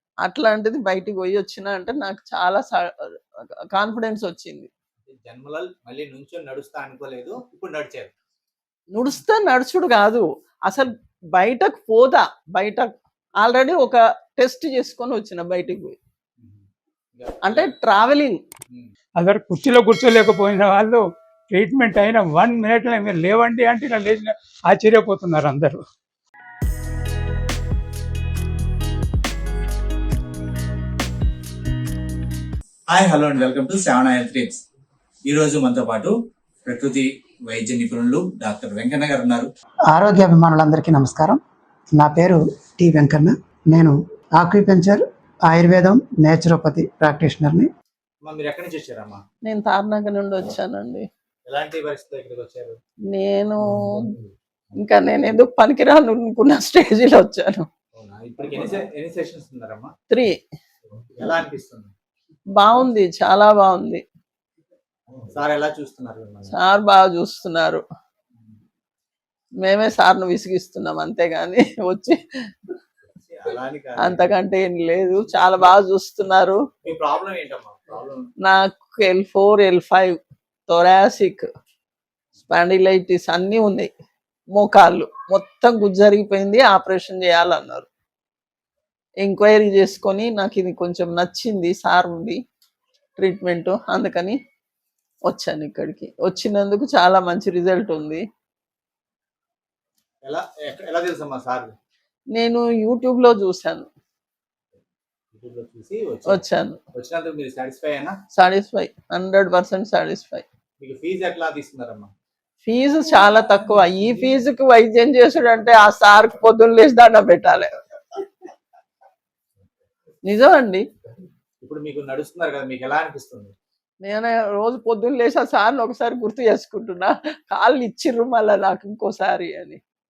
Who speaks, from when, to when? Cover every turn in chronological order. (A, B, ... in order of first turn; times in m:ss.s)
0:00.2-0:03.1 A
0:03.7-0:04.7 A
0:05.1-0:08.1 B
0:08.9-0:12.9 A
0:13.4-0:16.0 A
0:16.4-0:17.7 B
0:17.4-0:18.4 A
0:19.2-0:25.8 C
0:32.9-0:34.6 B
0:35.2-0:36.1 B
0:36.6-0:39.5 B
0:39.9-0:41.4 D
0:42.0-0:47.7 D
0:48.2-0:49.2 B
0:49.5-0:51.0 A
0:51.5-0:52.7 B
0:53.1-0:54.0 A
0:53.8-0:54.3 B
0:54.8-0:57.6 A
0:57.9-0:59.9 B
1:01.0-1:01.9 B
1:02.6-1:04.0 A
1:05.1-1:06.5 B
1:06.5-1:07.8 A
1:09.6-1:12.2 A
1:13.2-1:14.3 B
1:14.0-1:16.6 A
1:16.8-1:18.2 B
1:18.4-1:20.2 A
1:20.7-1:21.4 A
1:22.5-1:23.9 A
1:24.6-1:27.9 A
1:29.2-1:32.4 A
1:33.2-1:34.4 A
1:35.3-1:38.2 A
1:40.2-1:41.7 B
1:42.3-1:43.9 A
1:45.3-1:48.2 B
1:46.3-1:46.8 A
1:48.3-1:50.4 A
1:50.8-1:52.1 B
1:52.6-1:57.7 A
2:00.2-2:00.8 A
2:01.6-2:03.5 B
2:04.0-2:09.8 A